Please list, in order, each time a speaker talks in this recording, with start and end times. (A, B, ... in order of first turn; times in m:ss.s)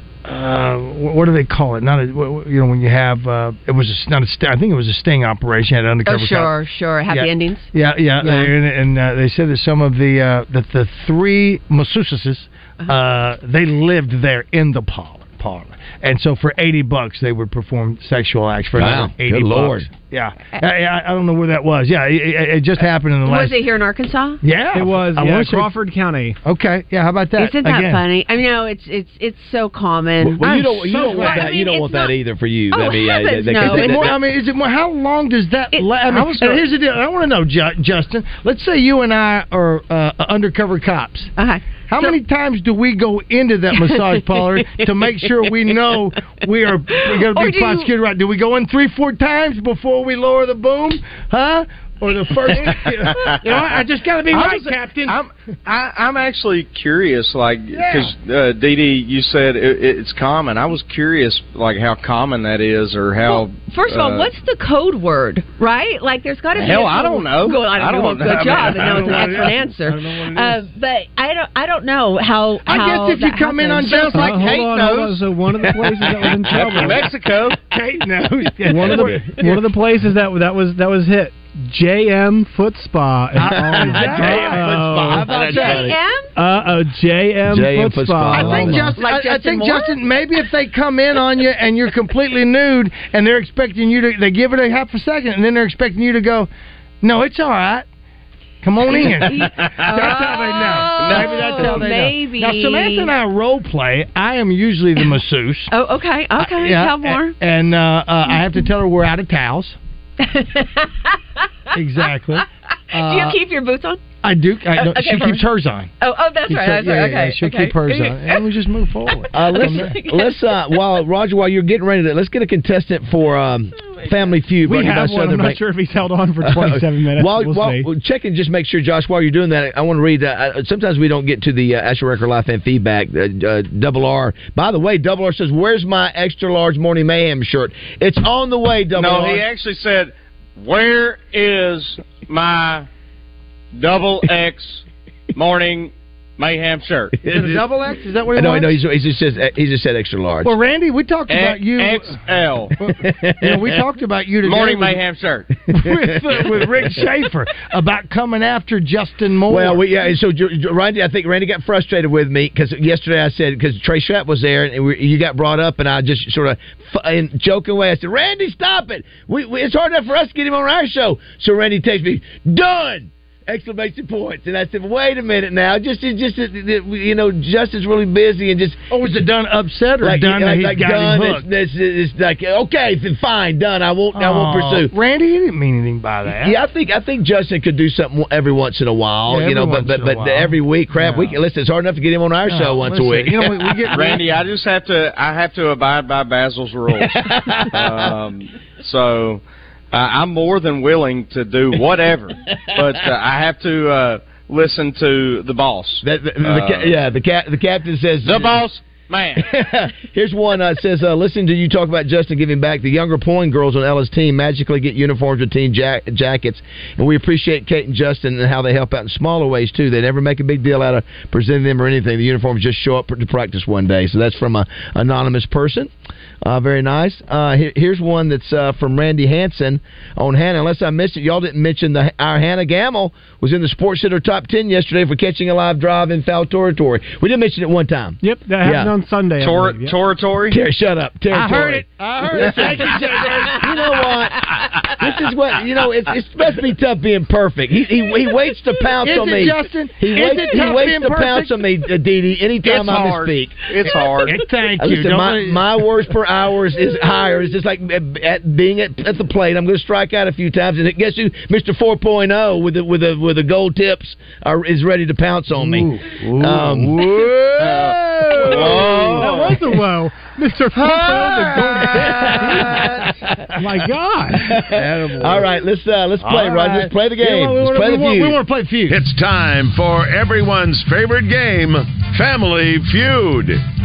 0:00.2-0:06.6 A
0:06.1-0:08.5 B
0:07.1-0:23.6 A
0:18.8-0:19.9 C
0:23.2-0:24.4 B
0:24.4-0:25.7 A
0:24.7-0:26.4 D
0:26.4-0:28.0 A
0:27.4-0:32.2 B
0:30.2-0:34.2 C
0:31.0-0:31.5 A
0:32.7-0:34.2 B
0:33.6-0:41.3 A
0:35.7-0:36.6 B
0:41.4-0:42.2 B
0:41.9-0:55.2 A
0:43.7-0:45.5 B
0:46.9-0:47.9 B
0:53.0-0:53.8 E
0:54.3-1:04.3 E
0:57.7-0:58.1 A
1:03.2-1:14.2 B
1:06.5-1:09.6 E
1:08.5-1:10.7 A
1:12.7-1:14.4 A
1:13.8-1:15.3 E
1:14.1-1:17.1 D
1:15.7-1:16.7 C
1:16.5-1:17.6 E
1:17.7-1:19.6 A
1:18.7-1:25.4 D
1:18.9-1:19.2 C
1:23.4-1:25.8 A
1:23.5-1:26.0 C
1:25.3-1:26.3 B
1:26.4-1:28.9 D
1:27.5-1:29.0 C
1:28.3-1:36.5 A
1:29.0-1:30.0 B
1:37.0-1:37.9 A
1:38.6-1:45.7 A
1:38.9-1:43.1 B
1:39.4-1:39.9 E
1:41.0-1:41.8 E
1:45.7-1:47.4 B
1:46.4-1:49.8 A
1:50.2-1:51.4 B
1:51.7-1:53.4 A
1:52.1-1:52.4 B
1:52.9-1:54.0 B
1:54.2-1:55.9 A
1:54.7-1:55.5 B
1:56.0-1:58.4 B
1:56.5-2:00.0 A
1:59.3-2:05.6 C
1:59.4-2:00.4 B
2:04.6-2:07.9 D
2:06.4-2:19.4 C
2:19.0-2:22.9 E
2:23.7-2:24.8 E
2:25.4-2:27.2 E
2:27.2-2:27.6 C
2:27.3-2:28.8 A
2:28.4-2:30.5 C
2:30.4-2:32.2 A
2:31.3-2:32.7 E
2:32.8-2:35.0 A
2:32.9-2:33.8 C
2:34.4-2:35.5 E
2:35.7-2:39.8 A
2:35.7-2:37.0 C
2:39.5-2:58.8 C
2:58.9-3:01.4 A
3:00.0-3:04.9 C
3:04.2-3:06.6 A
3:06.4-3:13.9 C
3:09.3-3:11.4 A
3:12.5-3:14.2 A
3:13.9-3:27.0 E
3:16.9-3:18.1 C
3:26.0-3:28.6 C
3:28.2-3:29.5 E
3:29.4-3:45.9 C
3:46.4-3:58.9 C
3:58.2-4:00.0 D
3:59.4-4:00.6 E
4:00.5-4:13.7 C
4:01.3-4:03.7 A
4:09.0-4:11.6 A
4:12.6-4:14.5 E
4:14.1-4:15.7 A
4:14.8-4:27.4 C
4:25.6-4:29.5 A
4:27.6-4:29.6 E
4:28.5-4:32.8 D
4:30.8-4:32.9 A
4:31.8-4:32.8 C
4:32.3-4:33.0 E
4:33.6-4:34.6 D
4:34.3-4:38.4 C
4:34.7-4:35.5 A
4:36.2-4:39.0 A
4:38.9-4:43.6 F